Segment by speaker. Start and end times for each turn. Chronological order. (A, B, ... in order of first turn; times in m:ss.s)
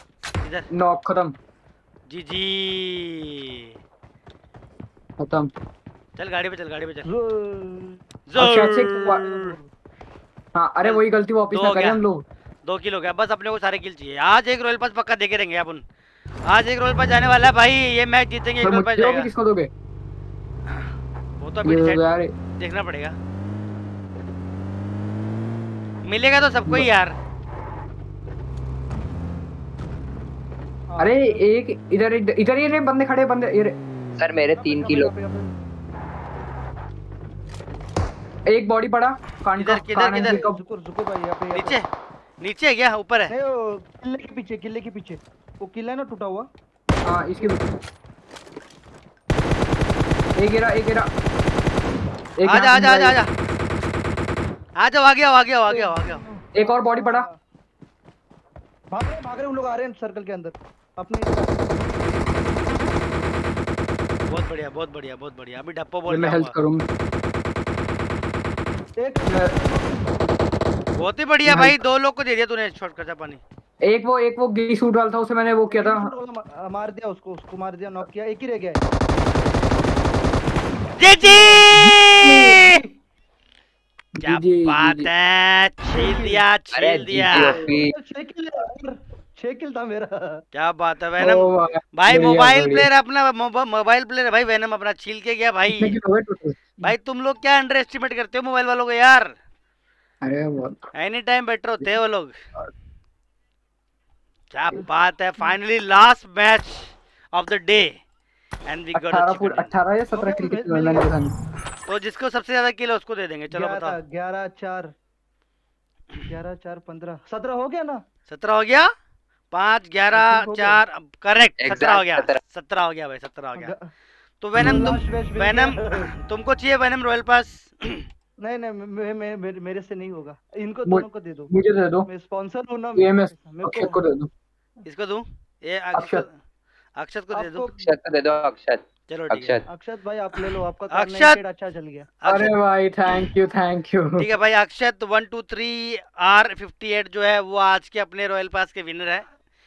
0:00.4-0:00.7 A
0:00.7-0:01.4 B
0:02.1-0:03.7 A
0:05.2-0:05.5 B
0:06.2-0:07.1 A
0:07.1-0:08.0 C
0:08.3-0:09.4 A
0:08.4-0:09.2 B
0:08.9-0:09.7 C
0:10.6-0:12.2 B
0:10.8-0:12.0 A
0:12.6-0:15.8 A
0:16.5-0:19.3 A
0:18.6-0:19.7 B
0:21.4-0:23.2 A
0:21.6-0:22.3 B
0:26.0-0:27.2 A
0:30.9-0:31.4 C
0:31.0-0:33.8 B
0:34.2-0:35.1 D
0:34.5-0:35.5 C
0:38.5-0:40.6 B
0:39.6-0:40.4 A
0:40.2-0:41.8 C
0:41.5-0:41.9 A
0:42.4-0:43.3 A
0:43.3-0:46.5 C
0:47.1-0:47.6 B
0:50.4-0:51.1 B
0:52.4-0:53.2 B
0:52.4-0:53.3 A
0:54.8-0:56.2 A
0:55.7-0:57.3 C
0:56.6-0:57.3 B
0:58.9-1:01.7 C
1:04.3-1:06.6 A
1:06.1-1:06.8 B
1:09.0-1:10.3 C
1:09.3-1:09.5 B
1:11.0-1:13.4 A
1:11.5-1:11.8 B
1:13.8-1:16.1 B
1:15.7-1:18.8 C
1:21.0-1:22.8 A
1:21.2-1:21.7 C
1:21.7-1:22.8 B
1:24.2-1:25.1 B
1:24.2-1:27.6 A
1:25.9-1:26.4 C
1:26.7-1:27.9 D
1:27.6-1:30.4 C
1:30.5-1:36.0 A
1:31.2-1:32.9 B
1:35.7-1:36.8 B
1:36.8-1:39.3 A
1:40.2-1:40.8 B
1:41.0-1:42.3 A
1:44.5-1:48.0 A
1:48.7-1:49.8 A
1:48.9-1:51.3 B
1:50.2-1:51.1 C
1:51.9-1:54.0 A
1:53.5-1:54.9 C
1:56.3-1:58.0 C
1:58.3-1:58.9 A
1:59.5-2:03.8 A
2:00.1-2:00.8 C
2:01.6-2:02.4 D
2:03.6-2:03.9 C
2:04.4-2:08.1 A
2:04.6-2:05.0 B
2:04.6-2:06.1 C
2:08.4-2:11.5 C
2:10.9-2:12.1 B
2:12.1-2:14.0 C
2:13.0-2:14.3 B
2:14.8-2:16.3 A
2:16.0-2:16.2 B
2:17.0-2:17.7 A
2:17.3-2:17.9 C
2:17.8-2:19.6 D
2:19.1-2:19.6 A
2:19.7-2:22.1 C
2:20.4-2:21.4 A
2:22.2-2:22.5 A
2:22.2-2:24.3 B
2:24.2-2:29.2 A